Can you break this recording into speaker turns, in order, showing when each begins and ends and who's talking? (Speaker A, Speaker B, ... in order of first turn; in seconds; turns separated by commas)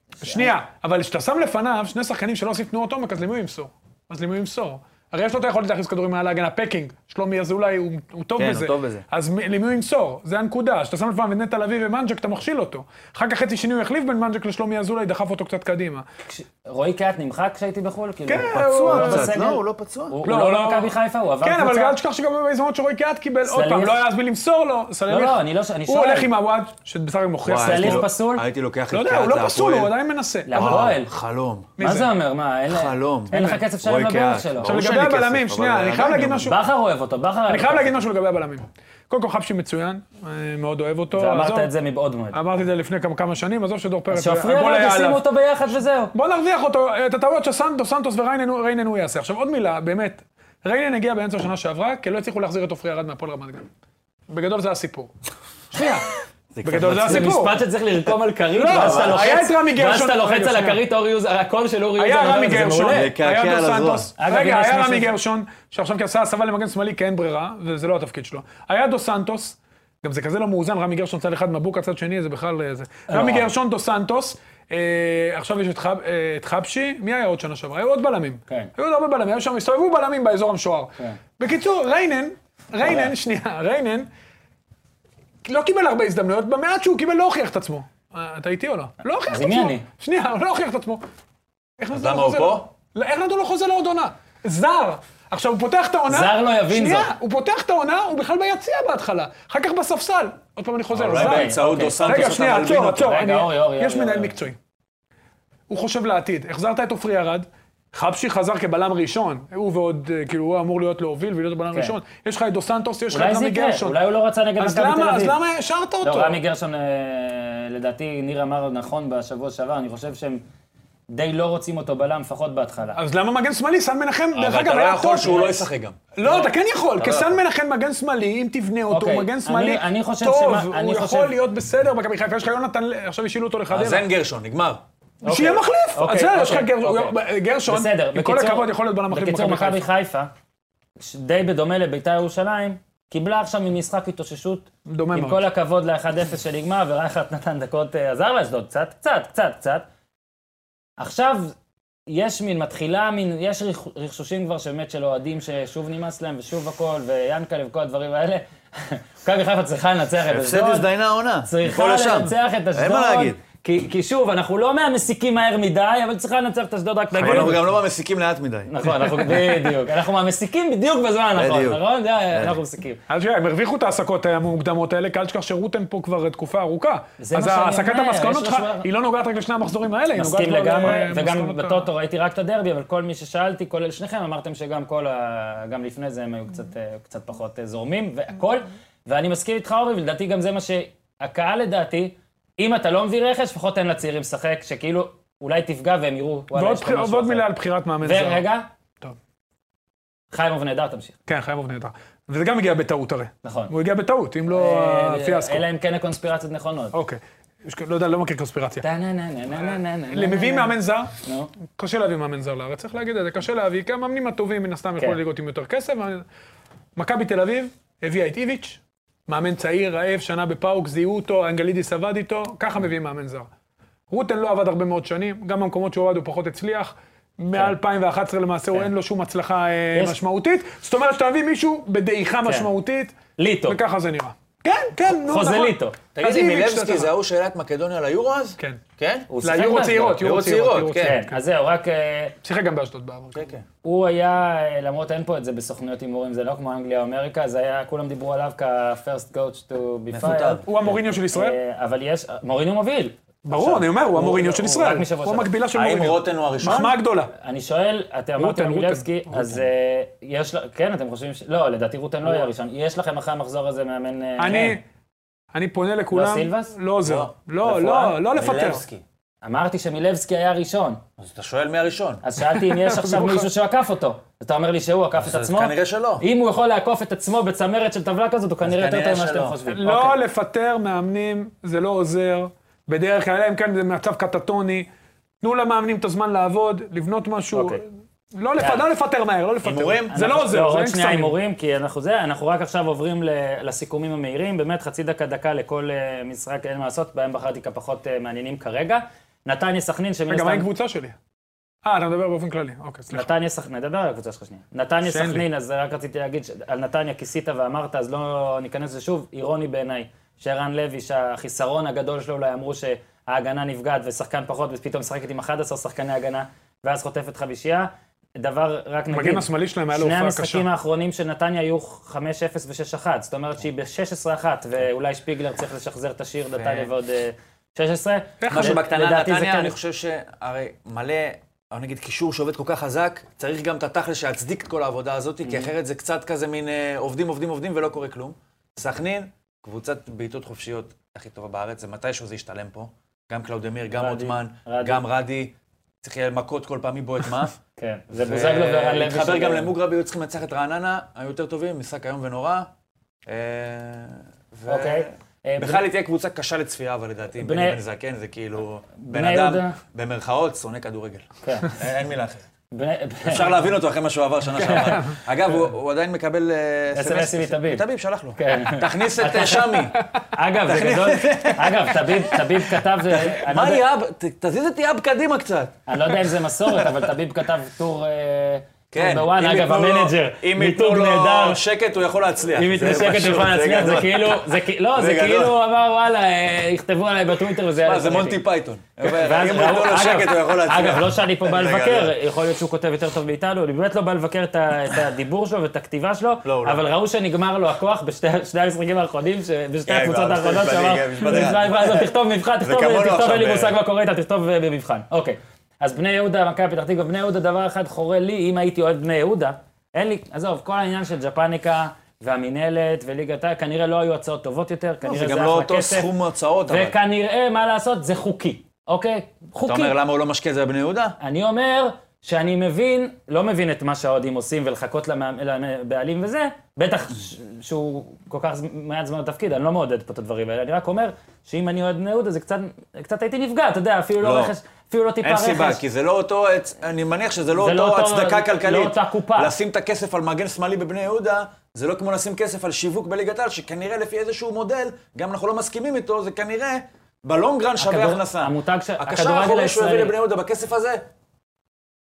Speaker A: 0.2-0.5, Speaker B: 0.2-16.0, Speaker C: 8.3-9.1, Speaker A: 16.3-21.9, Speaker B: 18.3-19.4, Speaker C: 18.4-20.2, Speaker B: 20.2-28.1, Speaker A: 23.4-24.0, Speaker A: 25.1-26.3, Speaker C: 27.4-29.9, Speaker A: 27.6-28.4, Speaker B: 28.9-30.9, Speaker A: 30.5-31.1, Speaker C: 30.5-31.7, Speaker B: 31.8-32.1, Speaker A: 31.8-34.7, Speaker C: 32.7-36.5, Speaker B: 33.3-33.6, Speaker B: 34.6-36.6, Speaker A: 36.4-38.0, Speaker B: 37.5-41.7, Speaker A: 41.1-42.4, Speaker B: 42.3-45.2, Speaker A: 44.1-46.1, Speaker B: 46.1-53.7, Speaker B: 54.3-55.1, Speaker B: 55.7-56.0, Speaker C: 56.5-57.4, Speaker B: 56.6-57.6, Speaker A: 57.0-63.1, Speaker B: 58.5-60.8, Speaker C: 58.7-59.4, Speaker B: 62.0-84.1, Speaker C: 62.9-64.1, Speaker A: 64.2-65.1, Speaker A: 73.1-73.5, Speaker A: 82.8-83.1, Speaker B: 85.4-91.0, Speaker A: 89.3-89.8, Speaker B: 91.8-104.6, Speaker C: 91.9-92.7, Speaker A: 96.1-97.1, Speaker C: 100.9-103.2, Speaker A: 101.1-104.3, Speaker B: 105.7-114.0, Speaker A: 113.1-115.4, Speaker B: 114.6-116.4, Speaker A: 116.0-120.4, Speaker A: 121.1-123.0, Speaker B: 123.0-125.6, Speaker C: 124.3-126.0, Speaker B: 126.1-134.1, Speaker A: 126.2-126.5, Speaker C: 127.0-127.4, Speaker A: 128.9-131.3, Speaker C: 133.7-134.8, Speaker A: 135.2-140.3, Speaker B: 135.2-139.9, Speaker A: 141.0-149.8, Speaker B: 144.8-145.4, Speaker A: 151.0-151.6, Speaker A: 152.1-160.9, Speaker C: 160.2-163.4, Speaker A: 161.4-167.7, Speaker C: 167.1-168.7, Speaker B: 167.2-167.6, Speaker A: 168.7-173.0, Speaker C: 171.3-171.8, Speaker B: 173.1-181.9, Speaker A: 177.2-178.9, Speaker A: 180.1-197.5, Speaker B: 196.5-198.4, Speaker A: 198.0-198.7, Speaker A: 200.3-201.2, Speaker B: 201.3-205.6, Speaker A: 203.4-203.7, Speaker A: 204.5-206.9, Speaker B: 206.9-208.8, Speaker A: 208.8-211.5, Speaker B: 209.6-211.1, Speaker B: 211.7-216.2, Speaker B: 216.9-223.5, Speaker B: 224.1-237.1, Speaker A: 232.4-232.7, Speaker A: 233.4-233.8, Speaker A: 235.1-236.0, Speaker C: 236.1-239.3, Speaker A: 239.3-240.3, Speaker B: 239.4-241.4, Speaker C: 240.2-241.2, Speaker A: 241.0-242.3, Speaker B: 242.4-243.4, Speaker C: 243.3-243.6, Speaker A: 243.8-255.5, Speaker C: 250.1-250.6, Speaker B: 250.6-251.6, Speaker B: 253.4-257.3, Speaker C: 255.7-256.9, Speaker A: 256.6-264.8, Speaker B: 258.4-259.5, Speaker B: 264.4-264.8, Speaker B: 265.5-268.8, Speaker A: 266.1-266.7, Speaker C: 267.0-267.3, Speaker A: 267.6-268.2, Speaker C: 268.3-269.0, Speaker A: 269.4-271.0, Speaker C: 271.2-272.2, Speaker A: 272.2-280.2, Speaker B: 272.5-273.5, Speaker C: 275.2-276.2, Speaker C: 278.6-279.6, Speaker B: 279.7-284.9, Speaker B: 285.4-291.3, Speaker A: 287.5-287.8, Speaker A: 288.6-288.8, Speaker C: 289.6-290.1, Speaker A: 290.1-300.7, Speaker B: 300.3-301.1, Speaker B: 301.8-303.3, Speaker A: 303.1-329.8, Speaker B: 305.1-305.4, Speaker B: 319.1-320.6, Speaker C: 326.6-326.9, Speaker B: 328.4-328.8, Speaker C: 328.5-347.6, Speaker A: 335.4-335.7, Speaker A: 344.0-345.0, Speaker A: 347.8-349.7, Speaker C: 348.1-352.7, Speaker C: 353.3-362.4, Speaker A: 354.7-355.8, Speaker A: 357.4-357.8, Speaker A: 359.0-359.8, Speaker A: 361.4-361.7, Speaker A: 362.7-363.6, Speaker C: 363.2-370.0, Speaker A: 364.5-365.1, Speaker A: 366.9-367.8, Speaker A: 368.4-373.8, Speaker C: 370.6-376.1, Speaker A: 375.9-381.6, Speaker C: 376.7-377.1, Speaker C: 378.9-385.6, Speaker A: 382.5-388.4, Speaker C: 387.8-392.1, Speaker A: 389.0-416.1, Speaker C: 396.4-396.8, Speaker C: 399.9-403.8, Speaker C: 415.0-417.0, Speaker A: 416.7-419.9, Speaker C: 419.6-421.2, Speaker A: 421.2-435.8, Speaker C: 434.2-434.5, Speaker C: 435.2-451.1, Speaker A: 437.5-439.5, Speaker A: 447.8-450.1